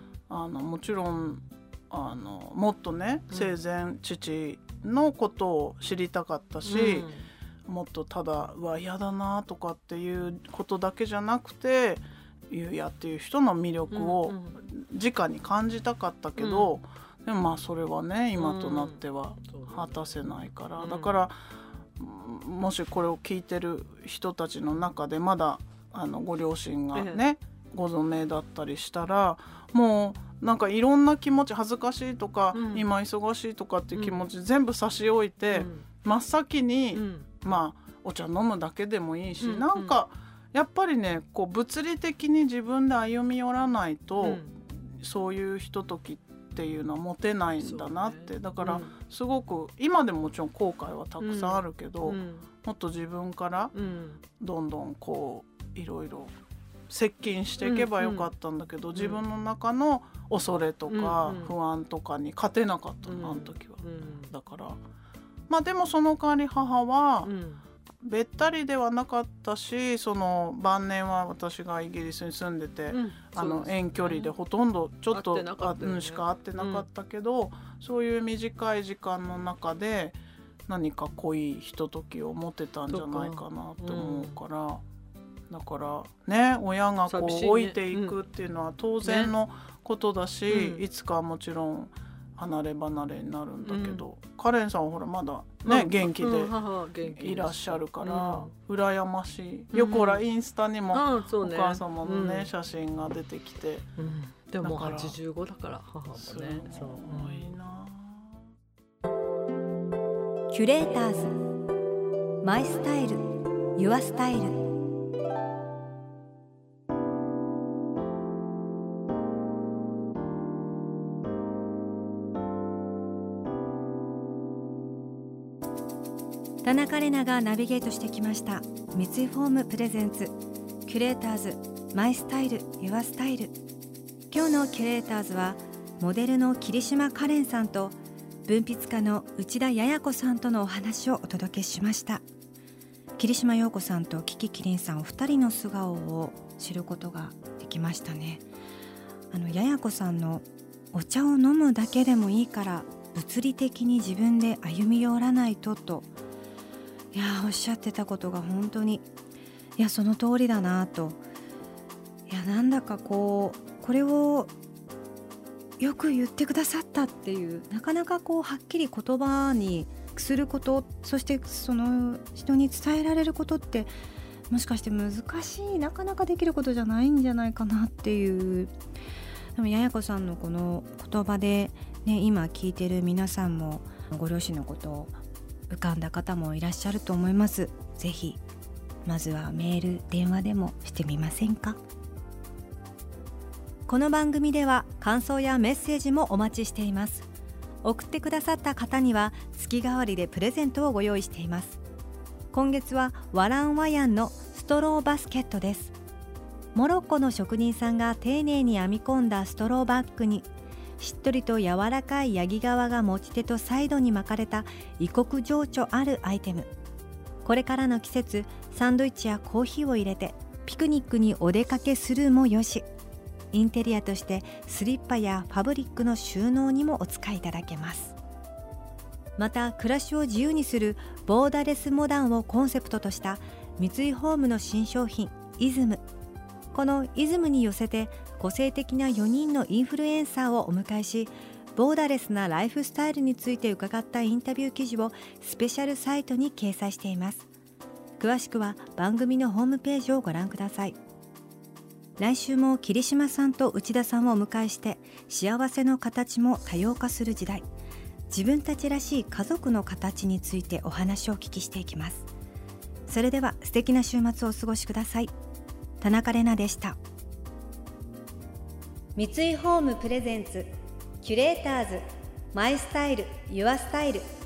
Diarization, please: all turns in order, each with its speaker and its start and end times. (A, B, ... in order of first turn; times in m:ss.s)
0:00.3-0:07.1 A
0:03.3-0:03.6 B
0:06.6-0:07.3 B
0:07.7-0:21.4 A
0:13.9-0:14.6 B
0:16.4-0:16.8 B
0:18.4-0:20.1 B
0:20.8-0:21.1 B
0:22.0-0:44.4 A
0:26.9-0:27.2 B
0:32.5-0:32.9 B
0:34.0-0:34.2 B
0:35.5-0:35.8 B
0:36.9-0:37.4 B
0:39.4-0:40.0 B
0:44.2-0:44.6 B
0:45.0-0:53.7 A
0:47.6-0:48.9 B
0:51.2-0:52.5 B
0:53.7-0:54.2 B
0:54.4-0:56.3 A
0:56.9-1:04.8 A
0:57.6-0:58.3 B
0:59.0-0:59.2 B
1:00.9-1:01.6 B
1:03.1-1:04.3 B
1:05.5-1:07.3 A
1:07.2-1:07.6 B
1:08.0-1:24.8 A
1:12.9-1:14.3 B
1:15.1-1:16.9 B
1:22.9-1:24.4 B
1:25.5-1:36.6 A
1:27.1-1:28.2 B
1:29.0-1:29.3 B
1:30.5-1:30.8 B
1:33.6-1:34.0 B
1:35.6-1:38.5 B
1:37.1-1:43.9 A
1:39.7-1:40.2 B
1:40.9-1:42.5 B
1:44.0-1:47.6 B
1:44.6-1:45.2 A
1:46.2-1:48.4 A
1:50.5-1:51.4 C
1:52.4-1:54.6 C
2:06.6-2:10.3 C
2:10.9-2:13.6 C
2:14.3-2:18.0 C
2:18.5-2:22.2 C
2:23.2-2:28.4 C
2:29.3-2:36.1 C
2:37.1-2:39.1 C
2:39.8-2:41.2 C
2:42.3-2:44.5 C
2:45.8-2:53.9 C
2:54.5-2:58.7 C
2:59.6-3:05.2 C
3:05.7-3:08.4 C
3:09.0-3:11.8 C
3:13.9-3:17.3 C
3:17.8-3:21.8 C
3:22.5-3:26.0 C
3:26.8-3:30.5 C
3:31.0-3:36.7 C
3:37.4-3:42.8 C
3:43.5-3:48.2 C
3:49.4-3:56.0 C
3:56.7-4:07.5 C
4:08.2-4:11.0 C
4:12.2-4:17.7 C
4:18.3-4:22.3 C
4:23.1-4:25.3 C
4:26.0-4:27.0 C
4:29.2-4:30.7 C
4:31.2-4:34.2 C